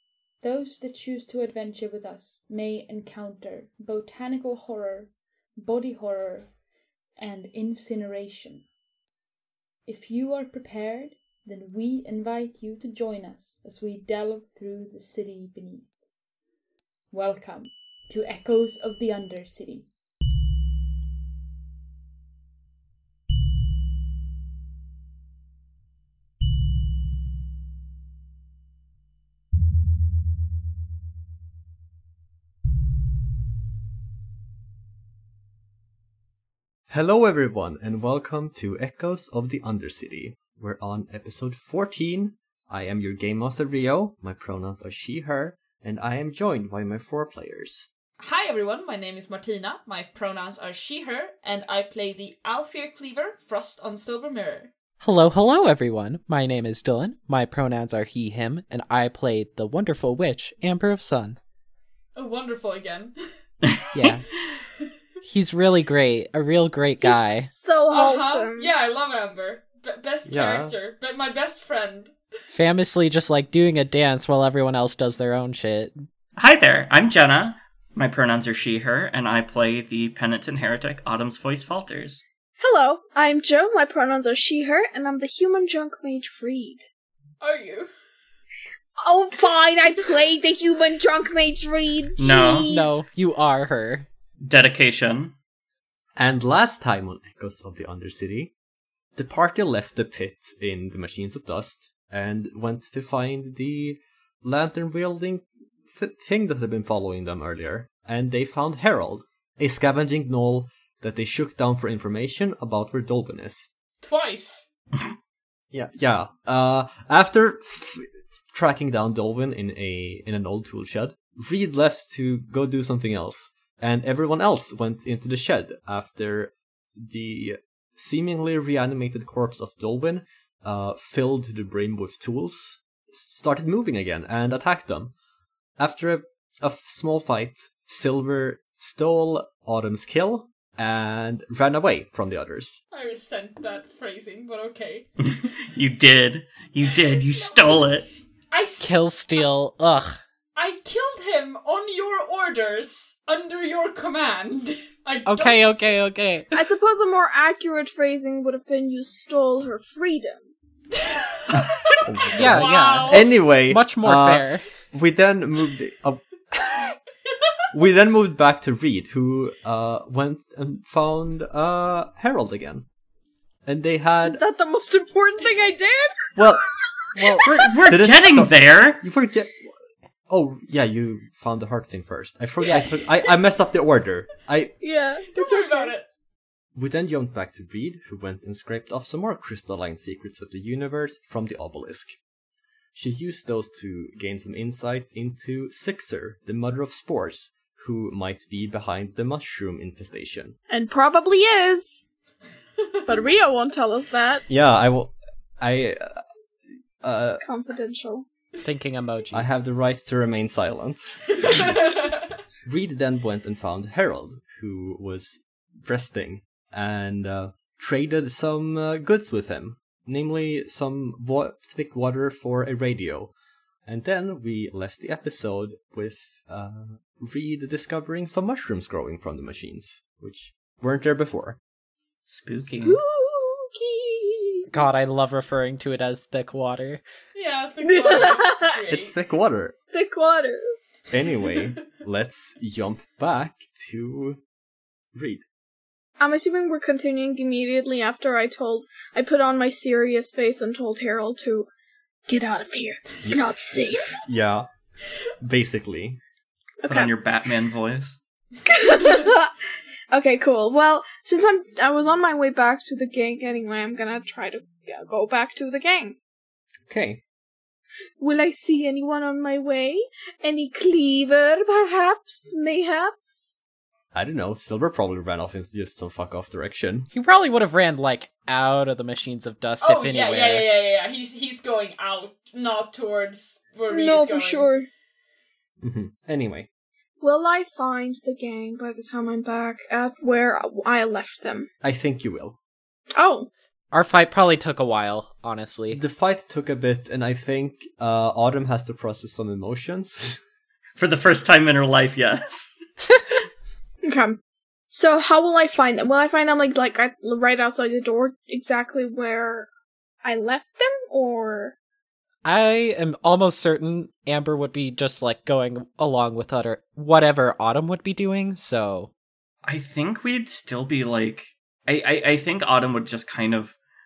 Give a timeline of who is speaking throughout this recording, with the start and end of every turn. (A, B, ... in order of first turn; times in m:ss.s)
0:00.4-0:06.5 A
0:07.2-0:08.6 A
0:09.8-0:15.9 A
0:17.1-0:19.9 A
0:36.9-0:47.9 B
0:48.2-0:54.7 C
0:55.0-1:01.4 D
1:02.2-1:03.1 C
1:03.6-1:04.1 E
1:03.9-1:04.3 D
1:05.2-1:07.5 D
1:07.0-1:08.7 F
1:07.9-1:12.1 C
1:10.3-1:10.7 B
1:12.5-1:15.9 D
1:16.4-1:22.2 E
1:22.6-1:26.8 F
1:27.4-1:27.9 C
1:29.0-1:33.1 F
1:32.2-1:32.7 E
1:32.7-1:34.1 D
1:34.4-1:35.3 E
1:36.2-1:38.5 B
1:39.2-1:53.7 B
1:54.0-1:54.7 C
1:55.7-2:15.1 B
2:15.8-2:22.8 B
2:22.9-2:25.1 C
2:25.2-2:28.1 E
2:27.0-2:29.5 C
2:28.8-2:30.2 D
2:30.6-2:35.9 C
2:35.3-2:36.6 D
2:36.5-2:40.5 F
2:40.9-2:43.3 C
2:42.0-2:47.0 B
2:42.3-2:44.7 D
2:47.7-2:52.9 B
2:53.6-2:54.4 B
2:54.2-2:56.4 F
2:56.4-2:56.6 B
2:57.2-2:59.8 B
2:57.2-2:59.0 E
3:00.3-3:04.7 B
3:02.6-3:03.0 D
3:04.8-3:05.9 F
3:05.3-3:06.1 C
3:06.8-3:12.2 B
3:12.9-3:20.6 B
3:20.7-3:22.1 F
3:23.1-3:24.4 F
3:24.5-3:26.2 B
3:27.0-3:27.4 B
3:27.4-3:28.3 F
3:28.6-3:29.5 D
3:29.3-3:31.9 B
3:31.4-3:32.2 C
3:32.6-3:43.3 B
3:43.9-3:51.6 B
3:52.3-3:53.0 E
3:52.8-3:54.7 F
3:54.7-3:57.0 D
3:57.3-3:59.1 C
3:57.8-3:58.7 F
3:58.9-3:59.8 B
3:59.9-4:00.6 F
4:01.1-4:04.4 B
4:05.1-4:05.4 B
4:06.2-4:11.7 F
4:12.3-4:14.2 F
4:13.2-4:13.5 B
4:14.1-4:14.7 B
4:15.4-4:16.2 B
4:16.8-4:17.1 F
4:16.9-4:18.2 E
4:18.7-4:19.6 F
4:20.1-4:26.2 F
4:26.9-4:27.2 B
4:28.2-4:33.6 F
4:34.1-4:37.1 B
4:37.1-4:40.7 D
4:39.8-4:44.7 C
4:43.9-4:44.9 F
4:45.8-4:46.7 B
4:47.2-4:51.7 F
4:51.8-4:52.6 B
4:53.2-4:53.5 F
4:53.9-4:56.0 D
4:55.9-5:00.4 B
5:01.0-5:02.8 E
5:04.0-5:04.4 F
5:04.9-5:09.7 F
5:10.2-5:11.8 F
5:12.4-5:19.1 D
5:19.6-5:23.8 E